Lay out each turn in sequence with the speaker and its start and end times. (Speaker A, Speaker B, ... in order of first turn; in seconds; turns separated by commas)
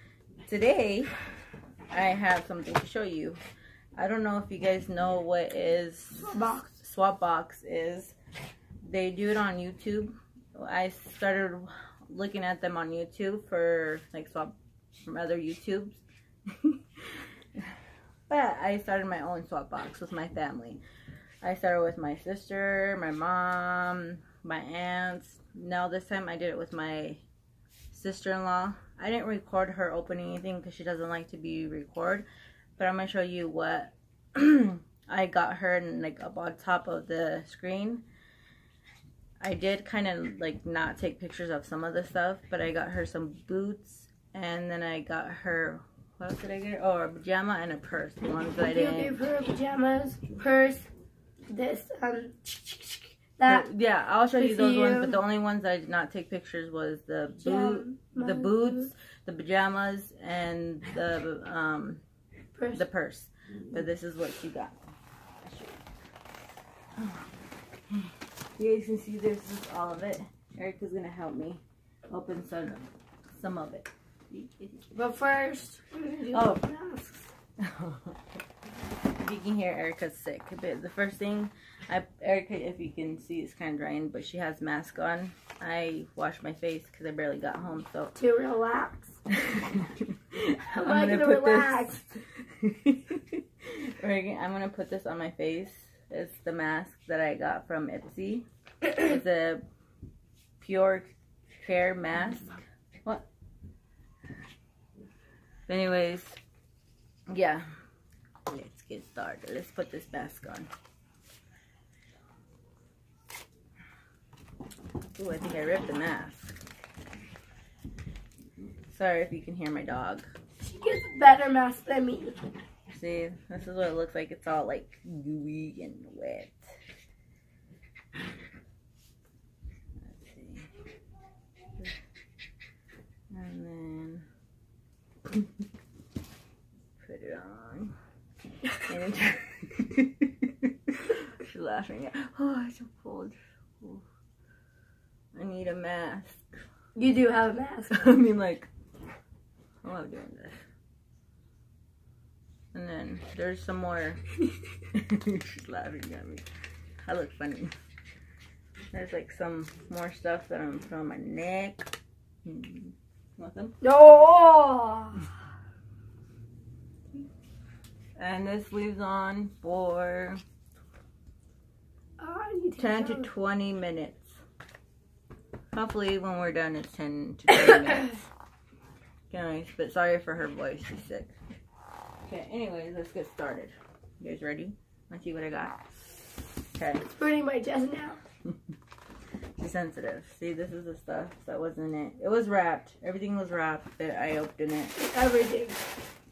Speaker A: 0.5-1.1, Speaker A: 1.9-3.4, Speaker A: 4.0-8.2, Speaker B: 6.2-6.7, Speaker A: 8.8-17.7, Speaker A: 18.3-20.8, Speaker A: 21.4-27.2, Speaker A: 27.9-32.3, Speaker A: 32.8-38.0, Speaker A: 39.4-49.2, Speaker B: 48.6-50.9, Speaker B: 51.5-53.7, Speaker A: 53.5-62.0, Speaker B: 54.4-55.2, Speaker B: 57.4-58.9, Speaker B: 62.5-62.8, Speaker A: 62.7-64.8, Speaker A: 65.4-65.8, Speaker A: 67.0-67.3, Speaker A: 67.9-74.8, Speaker B: 74.9-77.3, Speaker A: 76.3-76.6, Speaker A: 77.6-78.2, Speaker A: 79.2-88.2, Speaker B: 88.2-89.2, Speaker A: 89.3-99.7, Speaker B: 90.7-92.0, Speaker A: 100.6-103.2, Speaker A: 105.7-106.4, Speaker A: 107.3-107.7, Speaker A: 108.5-110.7, Speaker A: 115.2-116.6, Speaker A: 118.9-120.3, Speaker B: 120.6-122.4, Speaker A: 122.9-126.7, Speaker A: 130.0-130.7, Speaker A: 133.3-134.3, Speaker A: 137.0-138.0, Speaker A: 138.8-144.1, Speaker A: 145.3-146.5, Speaker B: 146.9-148.1, Speaker A: 147.9-148.7, Speaker A: 149.8-150.6, Speaker A: 152.7-154.2, Speaker A: 154.9-156.5, Speaker A: 157.0-157.7, Speaker A: 158.9-161.9, Speaker A: 162.4-163.8, Speaker B: 163.8-165.2, Speaker A: 168.2-170.4, Speaker B: 172.2-173.3, Speaker A: 172.8-174.4, Speaker A: 175.7-178.3, Speaker A: 179.3-181.3, Speaker A: 182.2-185.8, Speaker A: 186.8-187.1, Speaker B: 187.0-188.2, Speaker A: 189.6-195.0, Speaker B: 195.0-195.8